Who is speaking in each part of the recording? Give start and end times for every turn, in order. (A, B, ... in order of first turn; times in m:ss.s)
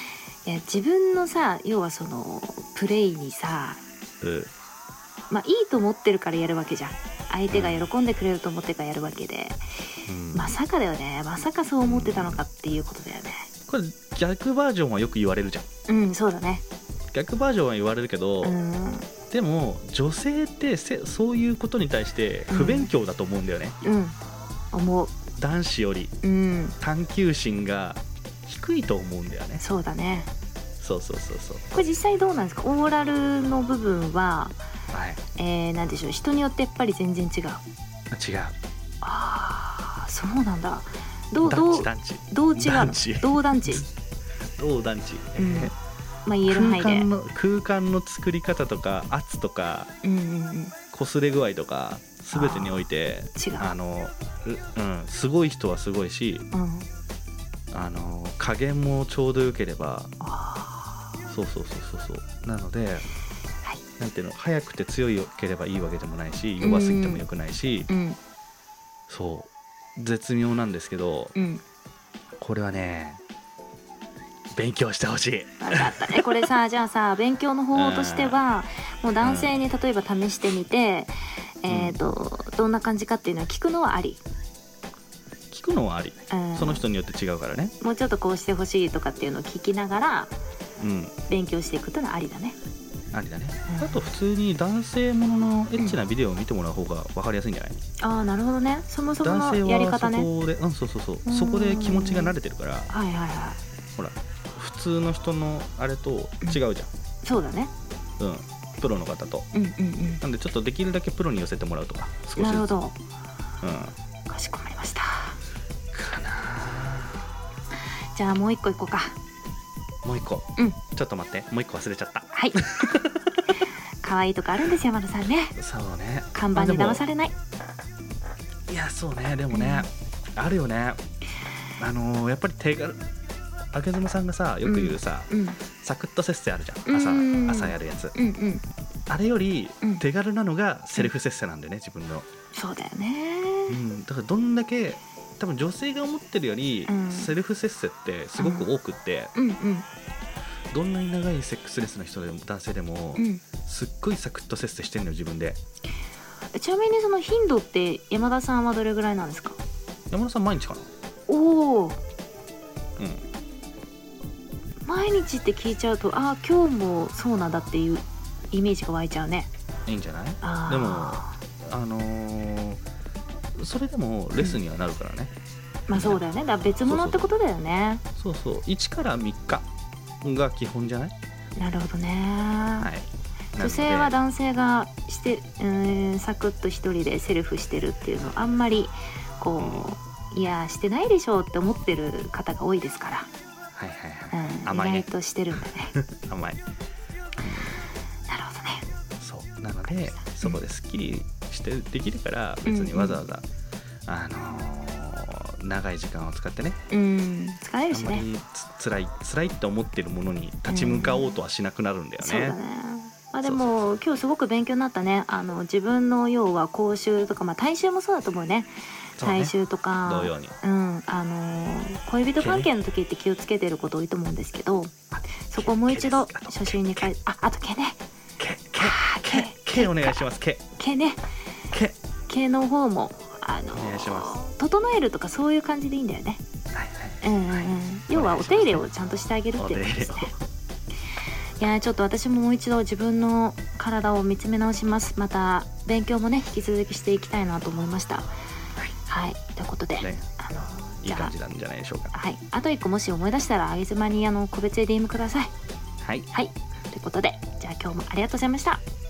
0:00.4-0:03.8 A
0:04.2-0:04.5 B
0:05.3-0:13.4 A
0:07.5-0:07.9 B
0:10.1-0:10.5 B
0:11.8-0:12.4 B
0:13.7-0:15.6 B
0:15.9-0:16.6 A
0:17.1-0:18.6 B
0:18.4-0:19.1 A
0:19.3-0:23.8 B
0:22.5-0:22.9 A
0:23.8-0:24.2 A
0:24.7-0:25.2 A
0:25.4-0:26.1 B
0:26.2-0:26.8 A
0:26.8-0:29.6 B
0:29.6-0:30.3 A
0:30.8-0:31.7 B
0:31.7-0:34.6 A
0:34.9-0:35.2 B
0:35.4-0:37.6 A
0:38.1-0:38.6 B
0:39.0-0:43.8 A
0:41.4-0:43.9 B
0:44.6-0:45.7 B
0:45.4-0:45.7 A
0:46.2-0:47.1 A
0:46.5-0:49.9 B
0:50.0-0:50.8 A
0:50.9-0:56.4 B
0:52.3-0:53.7 A
0:56.5-0:56.9 A
0:57.7-1:00.1 B
1:00.2-1:01.1 A
1:01.3-1:03.1 B
1:04.0-1:07.9 B
1:06.6-1:07.2 A
1:07.9-1:08.2 A
1:09.1-1:11.3 B
1:11.3-1:11.6 A
1:12.4-1:13.2 B
1:14.5-1:16.5 B
1:15.6-1:24.2 A
1:17.7-1:18.4 B
1:19.2-1:19.6 B
1:21.7-1:22.0 B
1:25.5-1:27.7 B
1:26.3-1:26.8 A
1:27.8-1:30.3 A
1:30.8-1:31.1 B
1:31.3-1:32.6 A
1:33.1-1:37.8 B
1:33.7-1:34.1 A
1:38.0-1:40.3 A
1:39.2-1:42.9 B
1:41.2-1:42.4 A
1:42.9-1:43.6 A
1:44.0-1:46.9 B
1:47.2-1:47.7 A
1:48.2-1:49.5 B
1:49.5-1:50.2 A
1:50.2-1:52.7 B
1:52.4-1:53.0 A
1:53.6-1:53.9 B
1:54.3-1:55.4 A
1:55.9-1:57.2 B
1:57.8-1:59.2 A
2:00.0-2:03.5 B
2:02.3-2:02.6 A
2:04.0-2:05.6 A
2:05.6-2:07.0 B
2:06.3-2:07.3 A
2:08.7-2:11.0 B
2:09.5-2:09.9 A
2:11.8-2:13.0 B
2:13.7-2:18.2 B
2:14.6-2:15.6 A
2:16.8-2:18.6 A
2:19.1-2:22.3 B
2:22.5-2:23.8 A
2:23.7-2:29.3 B
2:26.9-2:27.3 A
2:28.4-2:28.7 A
2:29.3-2:29.8 A
2:30.7-2:35.6 B
2:33.2-2:33.4 A
2:36.5-2:39.6 A
2:40.1-2:40.9 B
2:41.3-2:42.0 A
2:43.0-2:43.2 B
2:44.8-2:49.5 A
2:49.9-2:52.8 B
2:50.4-2:51.4 A
2:53.6-2:55.3 B
2:55.9-2:58.0 A
2:55.9-2:56.2 B
2:56.8-2:57.3 B
2:58.2-2:59.7 B
3:00.2-3:01.1 B
3:01.6-3:02.9 A
3:02.8-3:04.2 B
3:03.6-3:13.3 A
3:09.6-3:09.9 B
3:13.7-3:16.6 B
3:14.3-3:15.9 A
3:17.4-3:17.8 B
3:18.3-3:18.8 A
3:19.2-3:23.4 B
3:19.9-3:20.6 A
3:22.7-3:23.2 A
3:24.1-3:26.8 B
3:26.9-3:28.2 A
3:27.9-3:32.6 B
3:30.7-3:31.4 A
3:32.2-3:44.9 A
3:33.4-3:33.9 B
3:39.2-3:39.5 B
3:40.0-3:40.5 B
3:42.4-3:42.7 B
3:45.2-3:47.1 B
3:45.4-3:48.0 A
3:48.4-3:50.6 B
3:48.8-3:50.2 A
3:50.8-3:51.2 A
3:51.7-3:52.0 B
3:52.3-3:56.4 A
3:53.7-3:54.4 B
3:56.7-3:58.8 B
3:57.2-4:00.3 A
3:59.6-4:00.4 B
4:01.6-4:08.3 A
4:09.1-4:11.3 A
4:10.0-4:10.3 B
4:11.0-4:12.2 B
4:12.1-4:15.5 A
4:16.0-4:16.3 B
4:16.3-4:18.8 A